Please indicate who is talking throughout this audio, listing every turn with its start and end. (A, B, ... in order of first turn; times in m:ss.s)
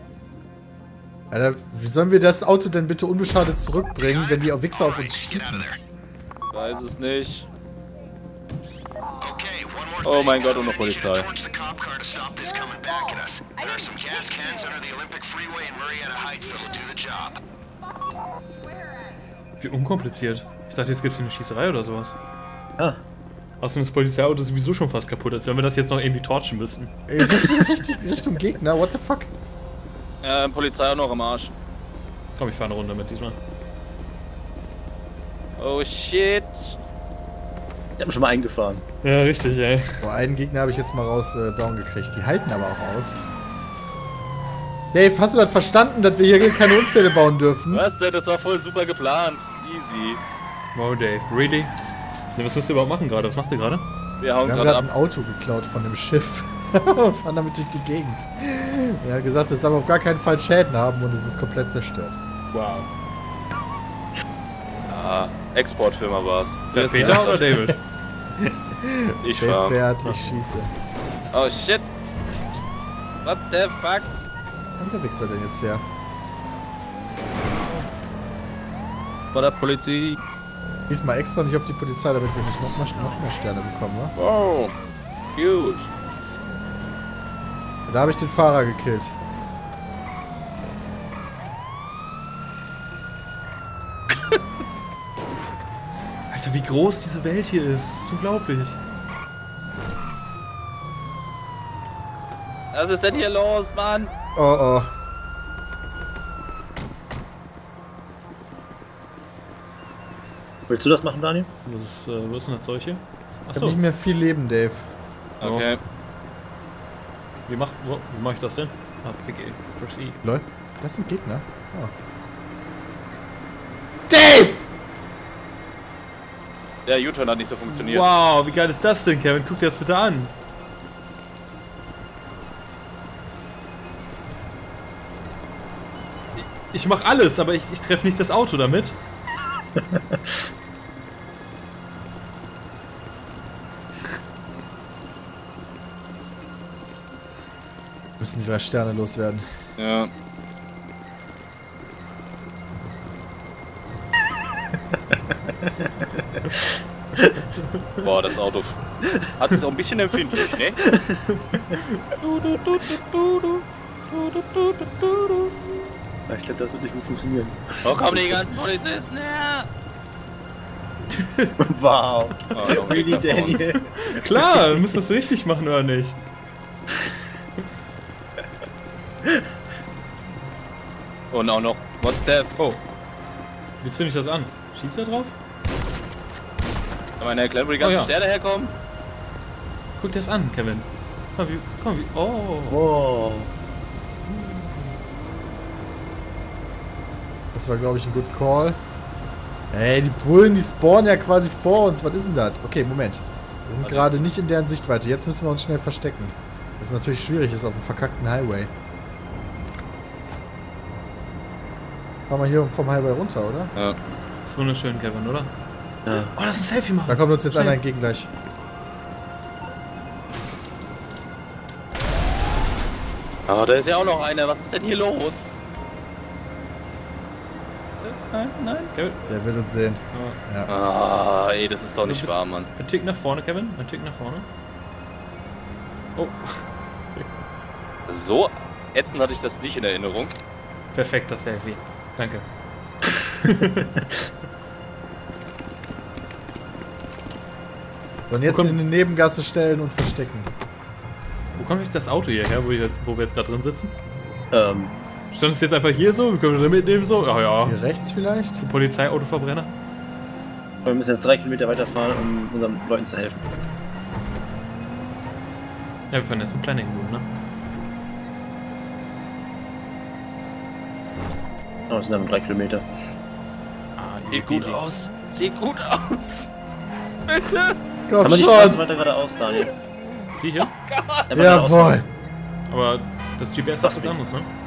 0:01.3-0:05.7 A
0:04.4-0:05.8 B
0:06.5-0:07.5 C
0:09.2-0:17.4 B
0:10.0-0:11.3 C
0:19.6-0:22.1 D
0:23.6-0:26.9 D
0:27.1-0:29.3 A
0:30.2-0:31.5 C
0:32.4-0:33.4 D
0:35.6-0:36.8 C
0:38.0-0:38.8 E
0:39.0-0:40.0 D
0:40.0-0:43.2 A
0:44.9-0:47.8 A
0:47.7-0:50.2 C
0:50.7-0:51.7 D
0:52.3-0:53.8 D
0:54.2-0:54.9 C
0:54.4-1:02.2 A
1:02.5-1:02.9 D
1:04.9-1:07.4 C
1:06.7-1:07.8 D
1:06.9-1:07.8 A
1:08.4-1:10.7 A
1:09.2-1:09.8 C
1:11.3-1:11.8 C
1:13.2-1:14.1 C
1:14.8-1:15.8 A
1:19.3-1:20.2 C
1:20.9-1:24.1 A
1:24.2-1:24.7 C
1:25.4-1:25.9 C
1:27.9-1:29.1 A
1:36.3-1:38.8 D
1:42.7-1:44.1 C
1:44.3-1:44.9 A
1:50.7-1:51.5 E
1:51.6-1:53.8 D
1:53.5-1:54.9 A
1:55.4-1:55.8 C
1:55.4-1:55.7 D
1:57.5-2:00.2 D
2:00.2-2:01.9 A
2:04.1-2:04.7 A
2:06.8-2:08.1 C
2:07.7-2:10.3 D
2:16.4-2:19.0 D
2:19.8-2:20.3 E
2:28.2-2:29.4 A
2:29.8-2:30.1 C
2:35.6-2:37.3 E
2:38.0-2:40.8 C
2:40.8-2:41.6 E
2:42.2-2:45.5 C
2:46.3-2:48.1 E
2:47.8-2:49.7 C
2:51.1-2:51.5 D
2:51.6-2:54.8 E
2:52.5-2:53.7 C
2:53.8-2:56.2 D
3:01.3-3:02.5 C
3:03.8-3:05.3 D
3:07.2-3:08.7 C
3:07.8-3:08.1 D
3:10.0-3:12.8 D
3:12.7-3:13.5 E
3:17.5-3:18.8 A
3:19.7-3:28.7 A
3:23.8-3:24.3 C
3:32.3-3:33.7 A
3:34.4-3:35.5 D
3:36.0-3:36.3 E
3:36.3-3:37.8 D
3:37.1-3:38.3 A
3:43.5-3:45.5 C
3:48.0-3:48.9 C
3:48.9-3:49.2 D
3:49.3-3:50.7 A
3:50.1-3:50.4 D
3:50.7-3:52.7 C
3:52.0-3:54.5 D
3:56.2-3:57.2 D
3:58.1-4:00.3 C
4:00.9-4:02.4 D
4:03.2-4:04.0 D
4:08.3-4:10.5 A
4:08.5-4:08.8 D
4:11.6-4:13.9 D
4:14.5-4:14.9 E
4:15.3-4:17.8 D
4:17.6-4:18.6 A
4:18.6-4:19.7 D
4:20.8-4:23.4 E
4:26.1-4:27.3 D
4:31.9-4:32.8 E
4:34.0-4:34.8 D
4:34.3-4:36.5 C
4:37.3-4:37.8 C
4:38.1-4:38.8 A
4:38.2-4:39.7 E
4:40.4-4:40.7 D
4:40.7-4:41.3 C
4:41.3-4:42.0 E
4:41.3-4:42.1 A
4:42.7-4:44.5 D
4:43.8-4:44.2 E